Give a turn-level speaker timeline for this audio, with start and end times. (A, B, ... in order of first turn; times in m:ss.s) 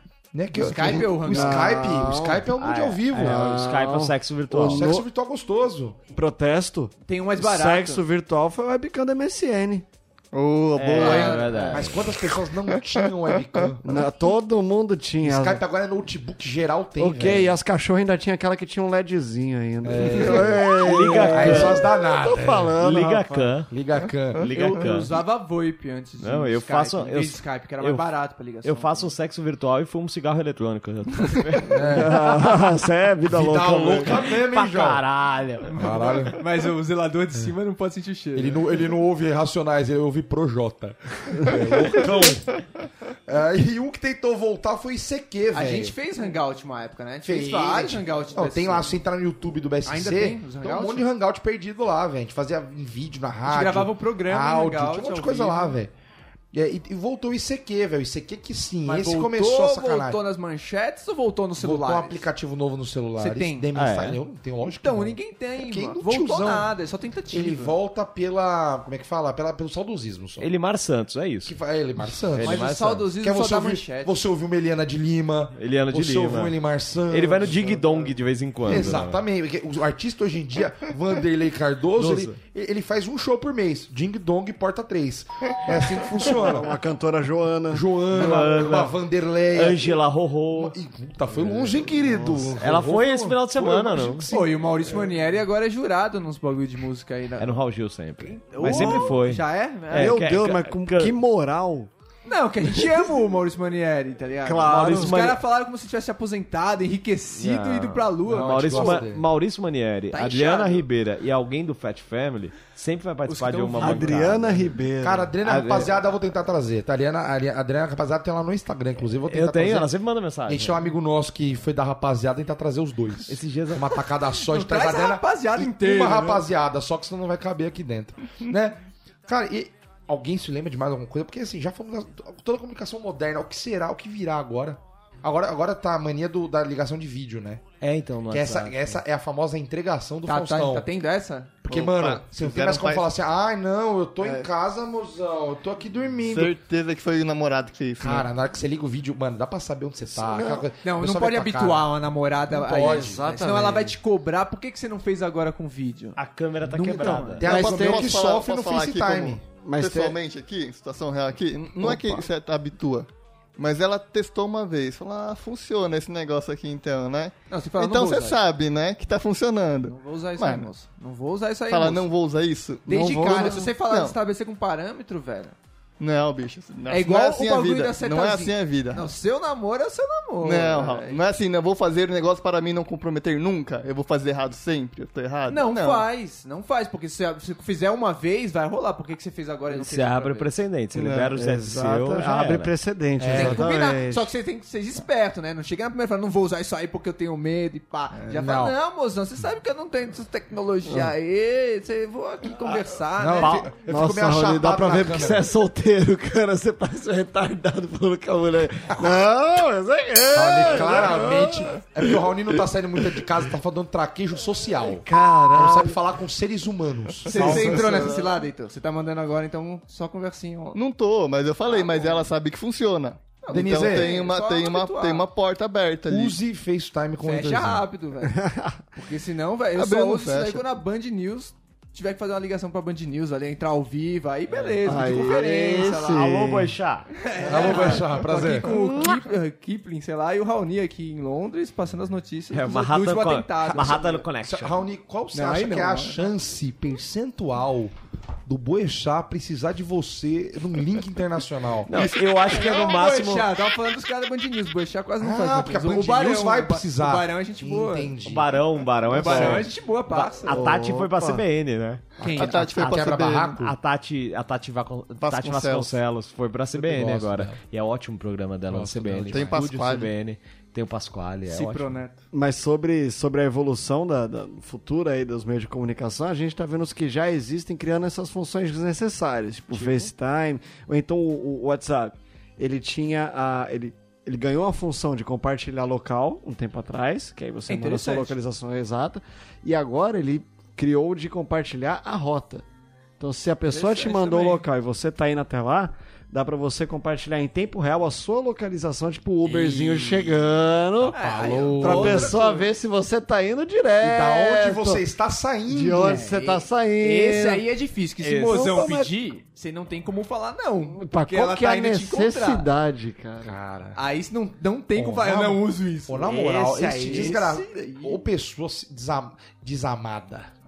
0:00.3-0:03.4 A
0:00.5-0:01.8 B
0:01.3-0:02.5 C
0:02.6-0:04.9 D
0:03.1-0:05.1 C
0:04.5-0:06.0 A
0:06.1-0:09.9 C
0:07.1-0:08.0 B
0:10.3-0:11.7 E
0:10.8-0:12.1 D
0:11.0-0:11.9 B
0:11.7-0:13.8 A
0:12.3-0:13.7 E
0:13.8-0:15.6 C
0:15.2-0:17.5 A
0:17.0-0:23.5 C
0:19.8-0:22.8 A
0:20.8-0:21.8 D
0:22.8-0:23.7 D
0:23.7-0:24.5 A
0:24.4-0:25.2 D
0:24.5-0:29.1 B
0:26.2-0:28.1 D
0:28.6-0:32.7 D
0:31.7-0:32.4 A
0:31.9-0:34.2 C
0:33.3-0:35.0 A
0:34.1-0:36.2 D
0:35.7-0:36.4 A
0:36.3-0:38.6 B
0:38.4-0:42.6 A
0:43.3-0:46.0 A
0:45.5-0:49.0 B
0:47.2-0:55.9 A
0:49.8-0:51.1 B
0:53.4-0:55.8 B
0:56.5-1:00.2 A
0:58.8-1:02.2 B
1:01.6-1:06.7 A
1:03.2-1:03.7 B
1:03.8-1:04.2 D
1:04.6-1:07.8 B
1:07.3-1:10.5 A
1:10.4-1:11.6 D
1:11.4-1:17.8 A
1:12.3-1:13.1 D
1:12.4-1:14.2 B
1:15.6-1:16.6 D
1:17.1-1:19.2 D
1:18.6-1:26.7 A
1:22.0-1:22.4 D
1:26.2-1:27.9 C
1:27.7-1:30.0 A
1:28.1-1:29.0 D
1:29.5-1:30.8 D
1:30.5-1:35.1 A
1:31.4-1:32.6 C
1:32.6-1:34.3 D
1:34.3-1:37.6 B
1:37.4-1:41.2 D
1:38.2-1:40.2 B
1:39.9-1:41.9 C
1:42.3-1:49.0 B
1:44.4-1:45.2 C
1:44.6-1:45.4 D
1:47.4-1:54.7 D
1:48.3-1:49.2 A
1:50.1-1:50.9 B
1:53.3-1:54.3 B
1:53.8-1:55.3 C
1:55.0-1:59.9 A
1:55.4-1:56.0 D
1:59.3-2:00.8 D
2:00.5-2:17.6 A
2:03.3-2:04.0 D
2:04.4-2:06.5 B
2:17.8-2:19.0 D
2:18.3-2:20.9 A
2:20.3-2:21.6 B
2:21.7-2:26.5 A
2:21.7-2:23.1 E
2:24.2-2:24.5 C
2:26.2-2:28.3 E
2:28.0-2:31.9 A
2:30.1-2:30.7 C
2:30.8-2:37.4 B
2:32.5-2:33.2 A
2:32.8-2:34.0 C
2:36.2-2:37.4 D
2:37.4-2:39.5 A
2:37.4-2:50.7 E
2:37.5-2:38.3 C
2:39.5-2:40.2 C
2:41.8-2:42.2 A
2:47.5-2:48.4 B
2:49.9-2:52.1 B
2:51.7-2:54.2 E
2:52.9-2:55.6 B
2:52.9-2:53.7 C
2:56.0-2:59.1 E
2:56.9-3:01.2 B
3:00.4-3:06.0 E
3:05.5-3:10.5 B
3:09.7-3:12.8 D
3:11.0-3:11.3 E
3:11.4-3:14.3 C
3:13.2-3:13.7 A
3:13.3-3:23.7 B
3:18.3-3:18.8 A
3:23.2-3:25.5 A
3:23.4-3:23.7 D
3:23.8-3:32.1 C
3:30.3-3:38.2 A
3:34.8-3:36.0 C
3:37.2-3:38.3 E
3:37.2-3:40.8 B
3:40.7-3:46.4 E
3:41.7-3:42.3 B
3:43.4-3:45.2 B
3:43.5-3:44.1 A
3:46.1-3:47.9 A
3:47.2-3:48.4 B
3:48.3-3:48.8 C
3:48.9-3:56.3 B
3:49.8-3:50.6 E
3:54.5-3:54.8 D
3:54.8-3:56.8 C
3:56.0-3:57.2 D
3:57.2-4:04.2 B
3:57.5-3:58.7 A
4:02.5-4:04.8 D
4:03.6-4:07.9 A
4:05.3-4:06.3 B
4:08.5-4:11.9 A
4:11.9-4:13.5 D
4:11.9-4:18.2 B
4:15.2-4:18.5 A
4:18.2-4:22.0 D
4:19.1-4:20.7 B
4:19.2-4:19.6 A
4:20.5-4:21.3 C
4:22.2-4:22.7 B
4:22.2-4:23.7 A
4:22.4-4:23.6 E
4:23.6-4:32.0 D
4:25.2-4:26.0 E
4:26.8-4:27.6 A
4:28.7-4:29.8 A
4:29.3-4:30.1 E
4:31.5-4:32.2 B
4:32.3-4:52.7 C
4:39.7-4:40.1 D
4:47.7-4:48.4 B
4:53.2-5:01.2 C
4:53.7-4:54.7 B
4:59.7-5:00.2 D
5:01.0-5:02.7 B
5:01.2-5:02.4 A
5:01.7-5:05.0 C
5:04.0-5:06.3 A
5:05.7-5:07.6 C
5:06.0-5:12.7 B
5:08.2-5:08.8 D
5:08.5-5:09.1 C
5:10.9-5:13.6 C
5:13.4-5:14.0 A
5:14.0-5:18.2 B
5:15.0-5:20.5 A